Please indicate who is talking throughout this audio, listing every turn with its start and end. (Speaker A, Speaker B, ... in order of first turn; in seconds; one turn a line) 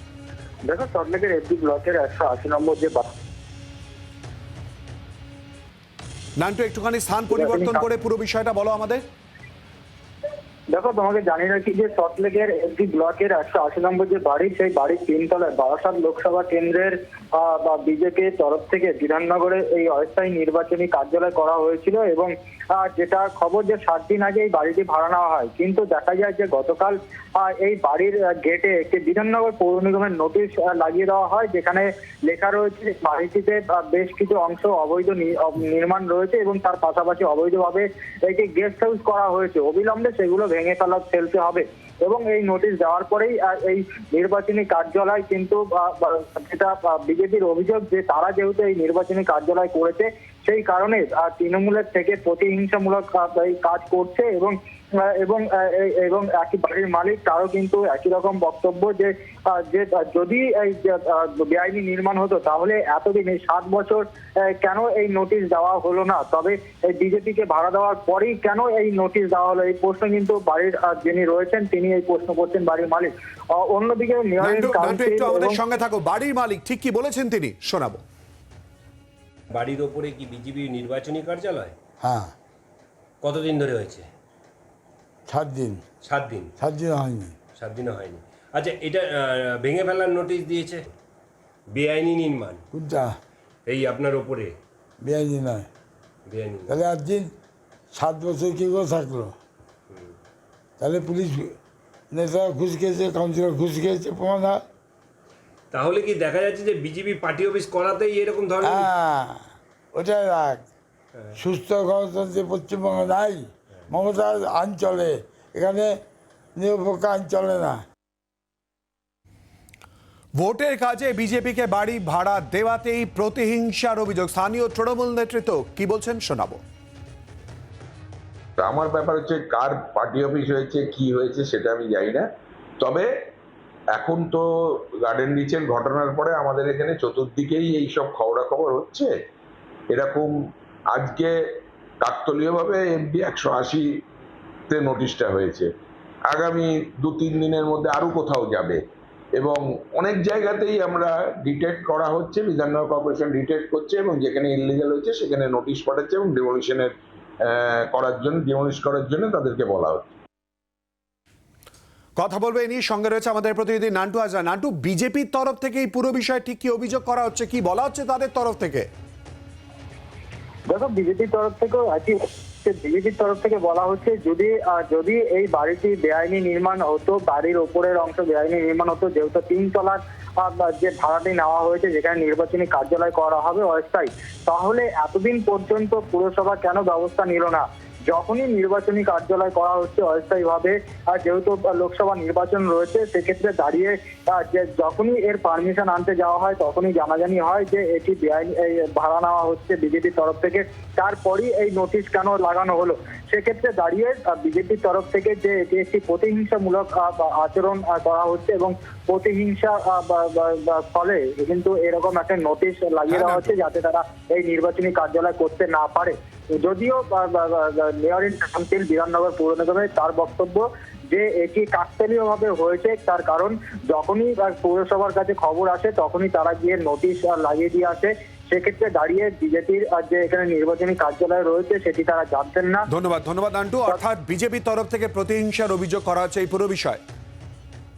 Speaker A: 0.7-3.1
Speaker B: 6.4-9.0
Speaker A: 7.3-7.8
Speaker A: 10.7-75.6
Speaker B: 74.4-78.0
Speaker C: 79.5-81.8
Speaker D: 82.0-82.3
Speaker C: 83.2-84.1
Speaker D: 85.3-85.8
Speaker C: 86.0-86.5
Speaker D: 86.6-87.4
Speaker C: 87.6-90.9
Speaker C: 91.7-92.6
Speaker D: 92.7-93.2
Speaker C: 93.7-94.6
Speaker D: 95.0-95.7
Speaker C: 96.3-96.8
Speaker D: 96.7-97.3
Speaker D: 97.9-99.3
Speaker D: 100.8-101.6
Speaker D: 102.1-104.6
Speaker C: 105.7-108.9
Speaker D: 108.6-109.4
Speaker D: 109.9-110.6
Speaker D: 111.3-116.0
Speaker D: 116.6-117.8
Speaker B: 120.4-126.6
Speaker E: 128.6-132.3
Speaker E: 132.8-133.1
Speaker E: 133.9-139.1
Speaker E: 139.9-140.3
Speaker E: 140.9-141.3
Speaker E: 142.0-143.8
Speaker E: 144.7-145.7
Speaker E: 146.3-148.8
Speaker E: 149.4-160.1
Speaker B: 162.2-168.9
Speaker A: 170.7-232.8
Speaker B: 213.1-213.4
Speaker B: 232.9-237.0